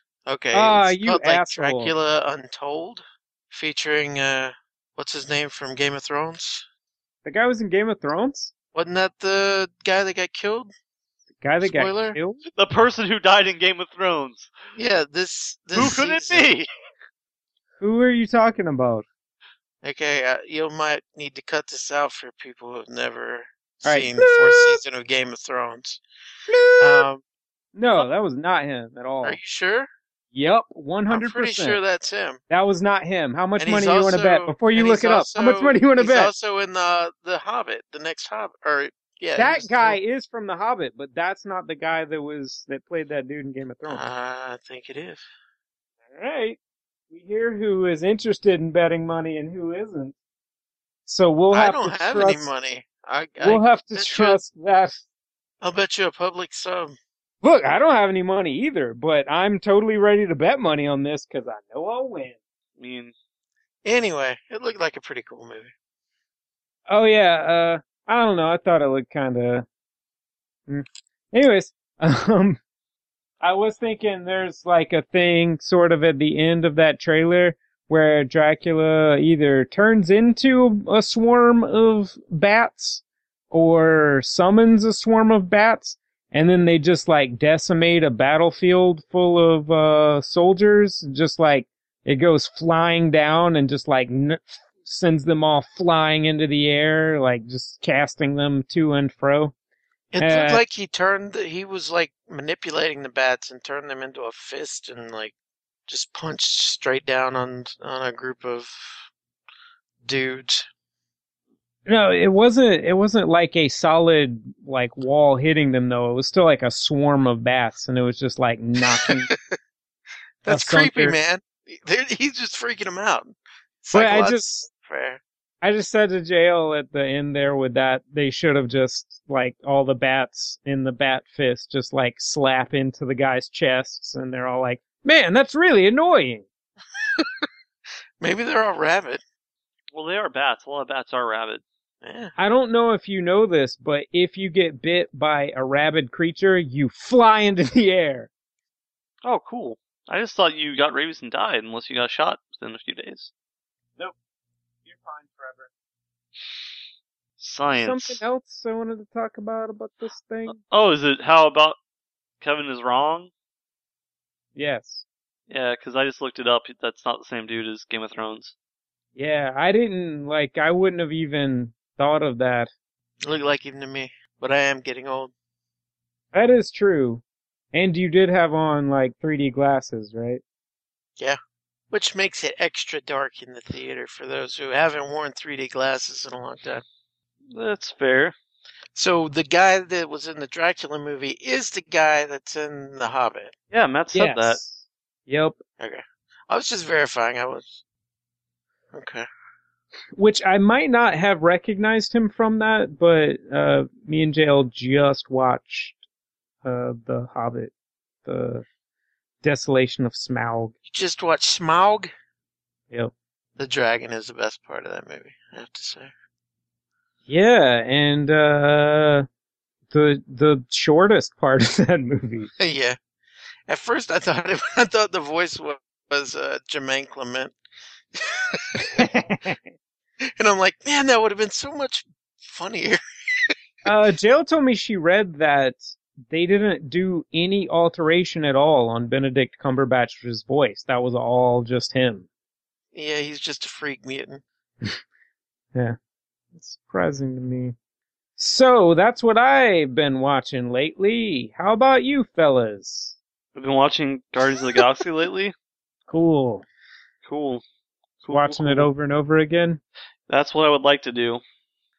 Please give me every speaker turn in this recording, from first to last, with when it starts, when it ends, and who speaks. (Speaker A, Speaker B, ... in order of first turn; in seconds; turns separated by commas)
Speaker A: 0.3-6.6, Speaker B: 0.5-1.9, Speaker B: 7.2-8.5, Speaker A: 8.7-10.7, Speaker B: 11.3-12.4, Speaker A: 11.6-12.2, Speaker C: 12.6-14.5, Speaker A: 14.7-16.5, Speaker C: 15.7-16.7, Speaker B: 17.8-19.0, Speaker A: 19.8-26.0, Speaker B: 23.8-24.8, Speaker B: 26.5-27.1, Speaker A: 26.8-27.2, Speaker B: 27.7-29.4, Speaker A: 29.2-29.9, Speaker B: 30.3-31.8, Speaker A: 31.1-32.4, Speaker B: 32.5-36.3, Speaker A: 33.6-40.0, Speaker B: 39.4-44.0, Speaker A: 43.9-45.2, Speaker B: 46.1-46.6, Speaker B: 47.1-50.1, Speaker B: 51.0-52.5, Speaker A: 51.5-54.4, Speaker B: 53.4-55.0, Speaker A: 55.6-57.0, Speaker B: 57.4-62.4, Speaker C: 62.8-63.1, Speaker A: 63.8-65.7, Speaker B: 66.9-69.6, Speaker B: 70.7-72.6, Speaker B: 73.4-99.5, Speaker A: 100.1-105.3, Speaker B: 100.2-100.6, Speaker A: 105.9-109.1, Speaker A: 110.0-110.7, Speaker B: 111.9-119.3, Speaker A: 120.4-125.2, Speaker B: 120.5-121.2, Speaker B: 123.9-124.7, Speaker B: 125.6-136.4, Speaker A: 138.2-139.2, Speaker C: 139.9-141.6, Speaker A: 142.0-142.3, Speaker B: 142.4-148.3, Speaker C: 149.2-153.3, Speaker B: 154.8-155.7, Speaker C: 157.4-158.2, Speaker B: 157.8-160.6, Speaker C: 160.5-161.8, Speaker C: 162.4-163.3, Speaker B: 164.6-165.0, Speaker C: 165.5-168.5, Speaker B: 169.2-172.7, Speaker A: 173.2-175.3, Speaker B: 176.3-180.4, Speaker A: 181.9-186.8, Speaker C: 187.5-188.3, Speaker A: 188.9-193.5, Speaker C: 193.7-194.6, Speaker B: 194.1-195.6, Speaker A: 195.8-197.8, Speaker A: 198.9-199.3, Speaker B: 200.2-206.0, Speaker B: 206.6-207.7, Speaker B: 208.2-208.6, Speaker B: 209.4-210.7, Speaker A: 210.8-212.1, Speaker A: 213.6-216.1, Speaker B: 217.3-219.2, Speaker B: 219.9-222.5, Speaker A: 222.6-223.0, Speaker A: 223.7-227.6, Speaker A: 228.2-228.8, Speaker B: 228.9-229.6, Speaker A: 230.4-233.5, Speaker B: 233.8-242.3, Speaker A: 242.9-244.4, Speaker B: 246.5-247.7, Speaker B: 248.4-253.2, Speaker C: 253.5-255.5, Speaker B: 256.1-256.6, Speaker C: 257.2-257.6, Speaker C: 258.2-258.9, Speaker B: 258.3-259.8, Speaker C: 260.3-261.4